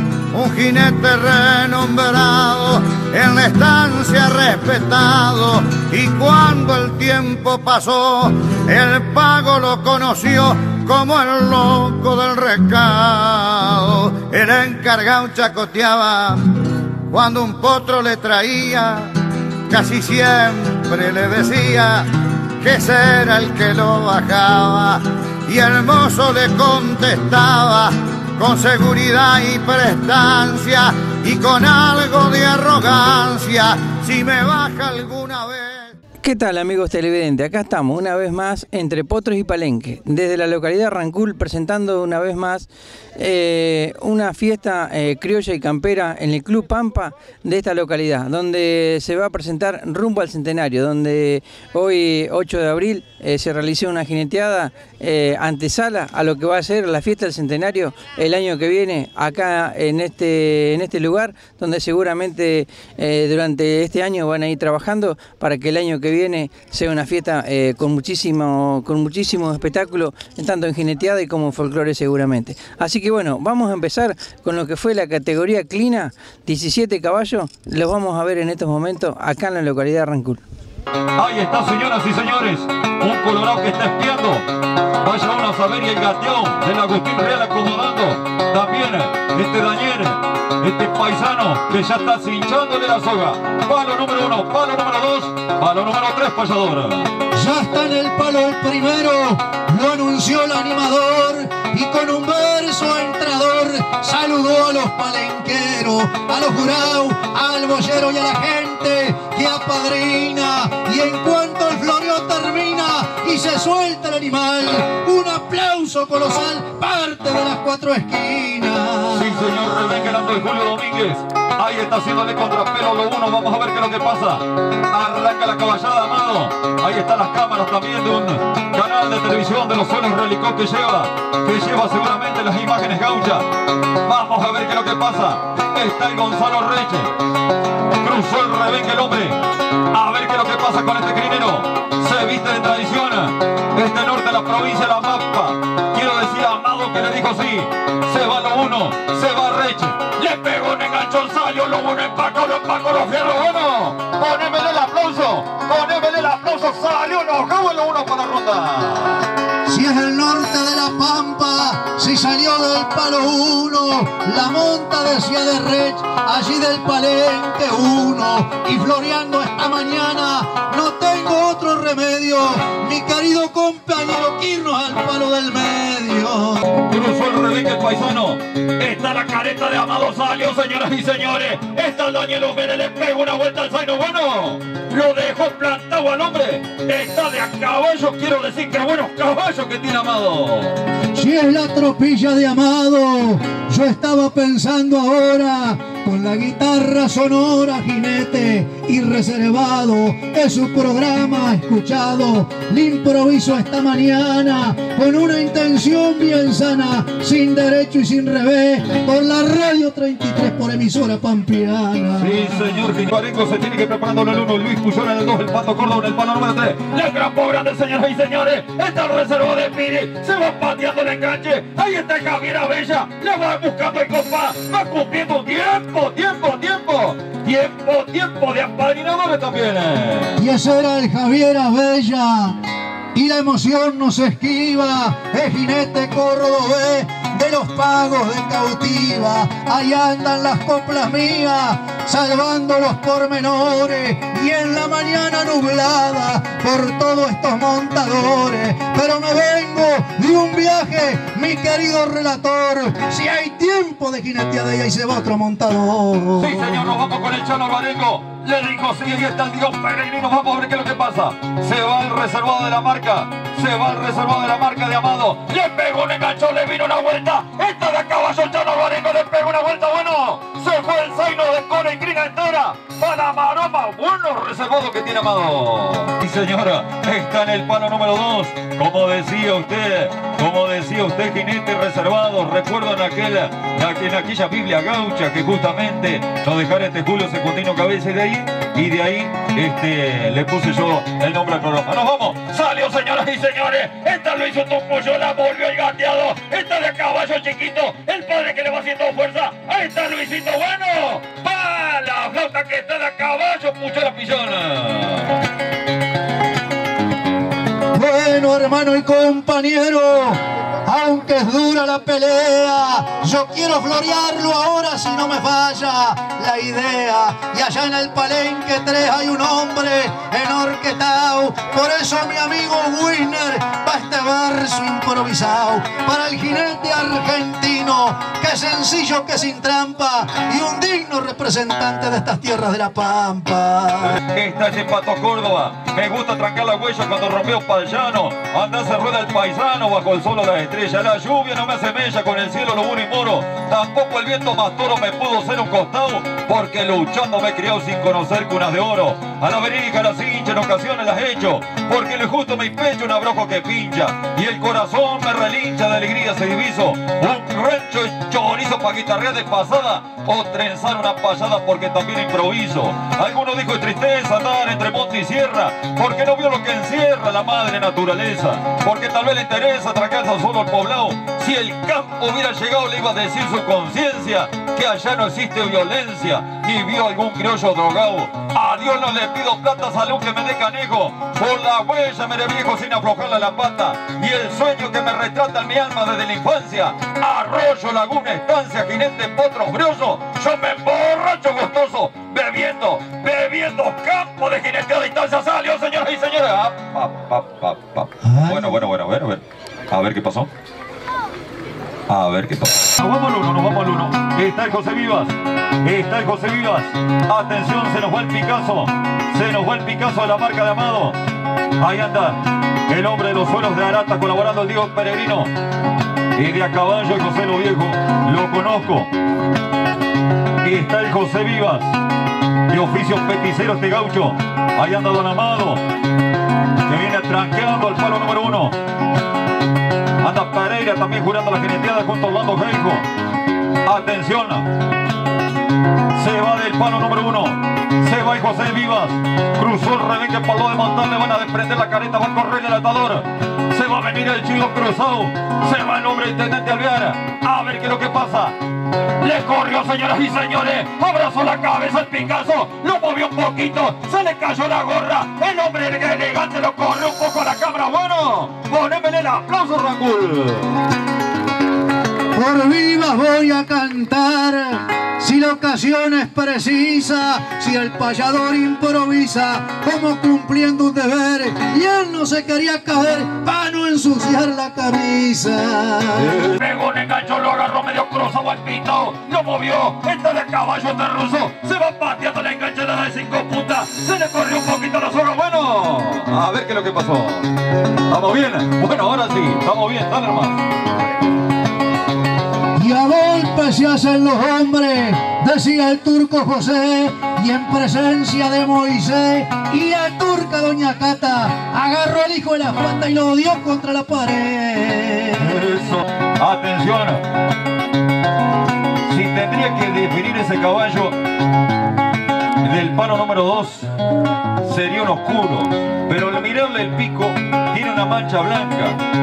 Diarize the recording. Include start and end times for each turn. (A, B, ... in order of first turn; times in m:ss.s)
0:00.3-0:16.5 A
0:17.1-0:19.1 A
0:19.7-0:22.1 A
0:22.6-0:36.0 A
0:36.2-1:20.4 B
1:21.2-1:24.4 C
1:25.0-1:37.1 C
1:37.3-1:59.3 D
1:59.1-2:13.4 C
2:14.1-2:17.1 C
2:18.0-2:19.4 C
2:19.9-2:39.2 C
2:39.7-2:56.6 D
2:56.9-3:10.7 C
3:11.1-3:32.4 D
3:32.2-3:50.4 C
3:50.4-3:52.6 D
3:53.1-4:16.6 D
4:16.4-5:05.4 C
5:07.9-5:34.2 D
5:34.1-6:40.5 C
6:38.2-6:38.8 D
6:42.1-6:51.2 C
6:51.8-6:55.5 C
6:56.4-6:59.1 C
7:00.6-7:01.9 C
7:02.7-7:05.8 C
7:06.8-7:08.8 C
7:10.2-7:13.0 C
7:13.8-7:14.7 C
7:16.2-7:28.6 C
7:29.2-7:40.8 C
7:42.3-7:56.4 D
7:56.3-8:07.5 C
8:08.1-8:10.6 C
8:12.8-8:25.6 D
8:25.4-8:27.2 C
8:29.1-8:31.1 C
8:32.6-8:33.9 C
8:34.6-8:39.0 C